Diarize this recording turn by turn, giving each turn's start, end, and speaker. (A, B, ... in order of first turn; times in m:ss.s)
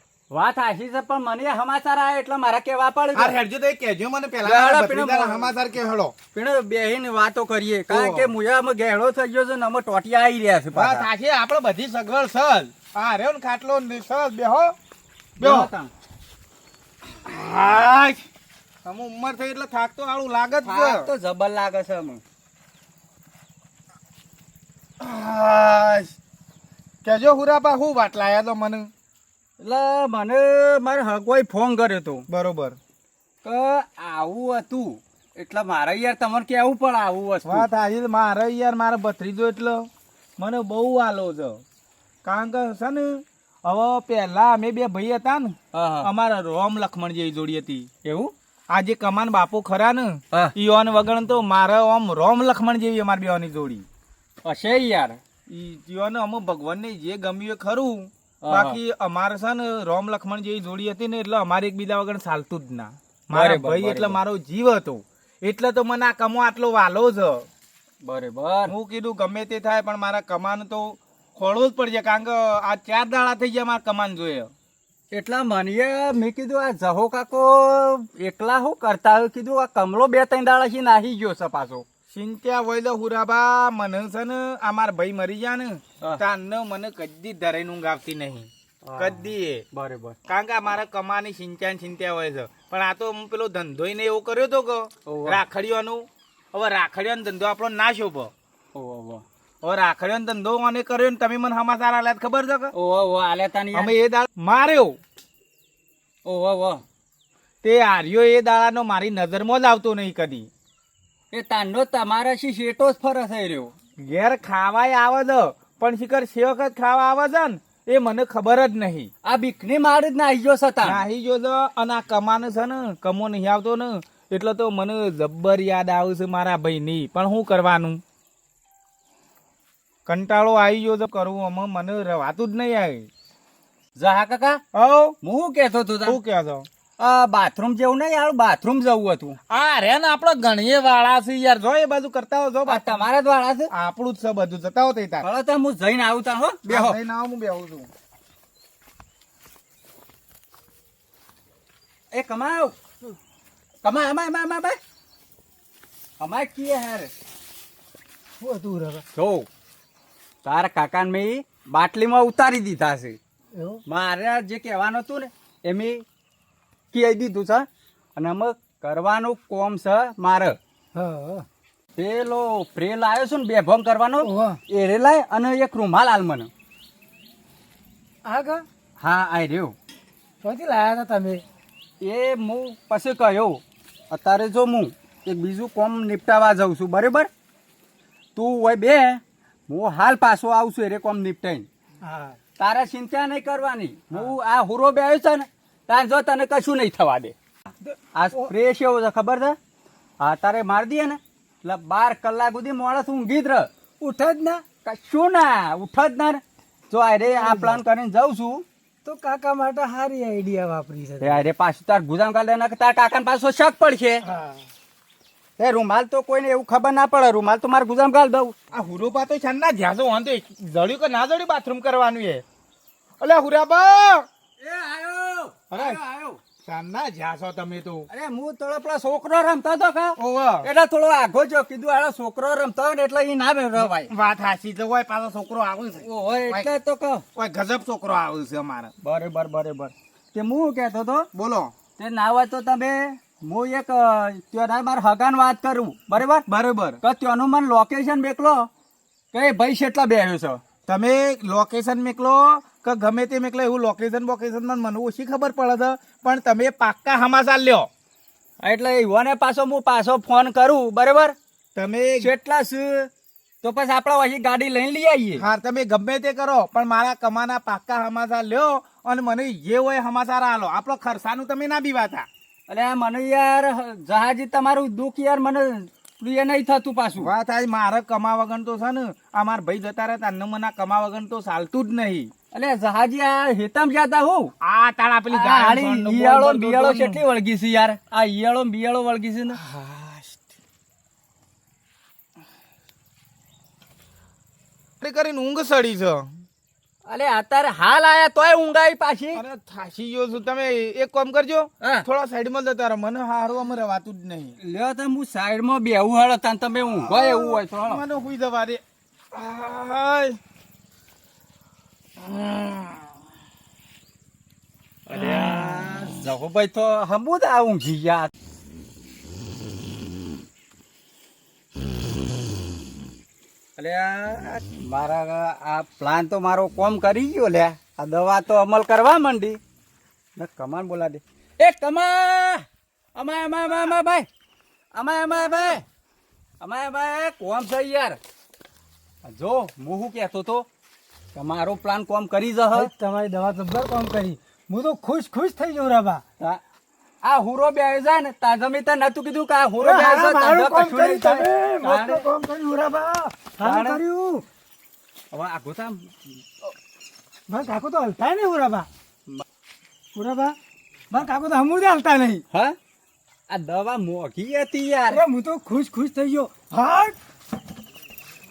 0:00.3-0:03.4 A
0:03.1-0:06.1 B
0:04.4-0:05.5 A
0:06.3-0:11.1 A
0:07.9-0:08.3 B
0:10.7-0:14.8 B
0:15.4-0:15.7 B
0:15.4-0:15.9 A
0:17.2-0:18.2 B
0:18.8-0:21.1 B
0:20.6-0:22.2 A
0:25.0-0:26.2 B
0:27.0-0:28.9 B
0:29.6-0:32.3 A
0:32.3-0:32.8 B
0:33.4-0:37.7 A
0:37.4-0:41.6 B
0:42.2-0:47.9 B
0:45.7-0:46.1 A
0:48.0-0:48.3 A
0:48.7-0:53.8 B
0:54.4-0:55.2 A
0:55.5-1:07.5 B
0:58.4-0:58.8 A
1:03.3-1:04.2 A
1:08.0-1:08.7 A
1:08.7-1:14.5 B
1:15.1-1:21.8 A
1:22.1-1:29.6 B
1:28.8-1:30.2 A
1:30.3-1:38.3 B
1:35.0-1:35.4 A
1:38.7-1:39.2 A
1:39.6-1:42.7 B
1:42.7-1:43.9 A
1:43.7-1:45.0 B
1:46.2-1:46.8 A
1:47.6-1:50.5 B
1:51.3-1:53.7 A
1:54.0-1:59.1 B
1:59.2-2:01.0 A
2:00.8-2:08.0 B
2:10.0-2:13.1 B
2:14.0-2:14.6 A
2:14.7-2:15.2 B
2:15.2-2:16.2 A
2:16.0-2:16.7 B
2:17.0-2:19.4 A
2:19.5-2:23.0 B
2:22.6-2:23.7 A
2:23.7-2:25.2 B
2:25.2-2:27.0 A
2:26.7-2:27.9 B
2:32.1-2:32.8 A
2:33.8-2:34.8 A
2:36.2-2:37.1 A
2:38.4-2:39.0 C
2:39.1-2:39.5 A
2:40.4-2:43.2 A
2:43.5-2:43.8 C
2:43.9-2:46.0 A
2:46.9-2:50.6 A
2:50.9-2:51.4 C
2:52.0-2:56.5 A
2:54.2-2:54.6 C
2:58.2-2:58.6 C
2:59.0-2:59.8 A
3:00.4-3:01.4 C
3:02.0-3:07.3 A
3:08.4-3:11.6 A
3:12.0-3:12.4 C
3:12.6-3:17.3 A
3:17.8-3:18.5 C
3:18.1-3:19.6 A
3:20.2-3:23.7 A
3:24.0-3:24.6 C
3:24.8-3:28.6 A
3:27.2-3:27.8 C
3:29.0-3:31.4 C
3:31.2-3:34.2 A
3:34.2-3:34.6 C
3:35.6-3:38.5 A
3:38.7-3:42.4 B
3:43.2-3:44.3 B
3:44.6-3:46.4 A
3:45.7-3:46.0 B
3:46.6-3:48.1 B
3:48.1-3:54.1 A
3:50.2-3:50.7 B
3:53.8-3:56.7 B
3:56.0-3:57.2 A
3:57.3-3:58.9 B
3:59.0-4:01.3 A
4:01.3-4:01.7 B
4:02.0-4:06.4 A
4:06.2-4:07.0 B
4:07.0-4:08.7 A
4:09.3-4:10.6 A
4:10.9-4:17.9 B
4:18.6-4:21.3 A
4:21.7-4:22.3 B
4:22.2-4:23.1 A
4:23.6-4:25.4 A
4:25.4-4:32.3 B
4:32.7-4:37.3 A
4:37.2-4:42.3 B
4:42.5-4:44.5 A
4:44.6-4:47.2 B
4:45.3-4:49.6 A
4:49.5-4:50.5 B
4:55.0-4:56.3 B
4:57.1-4:59.4 A
4:59.3-5:04.6 B
5:01.8-5:02.0 A
5:04.6-5:08.0 A
5:07.0-5:10.4 B
5:12.2-5:13.1 B
5:15.1-5:18.3 A
5:23.8-5:29.6 A
5:30.4-5:34.3 A
5:34.9-5:35.8 A
5:36.6-5:38.2 A
5:39.2-5:40.7 A
5:41.3-5:42.9 A
5:42.7-5:46.2 C
5:47.2-5:52.2 A
5:49.8-5:54.4 C
5:53.6-5:54.0 A
5:55.3-5:56.7 A
5:57.5-5:58.9 C
6:00.1-6:00.6 C
6:01.1-6:02.4 C
6:02.5-6:02.8 A
6:03.5-6:05.2 A
6:05.1-6:07.1 C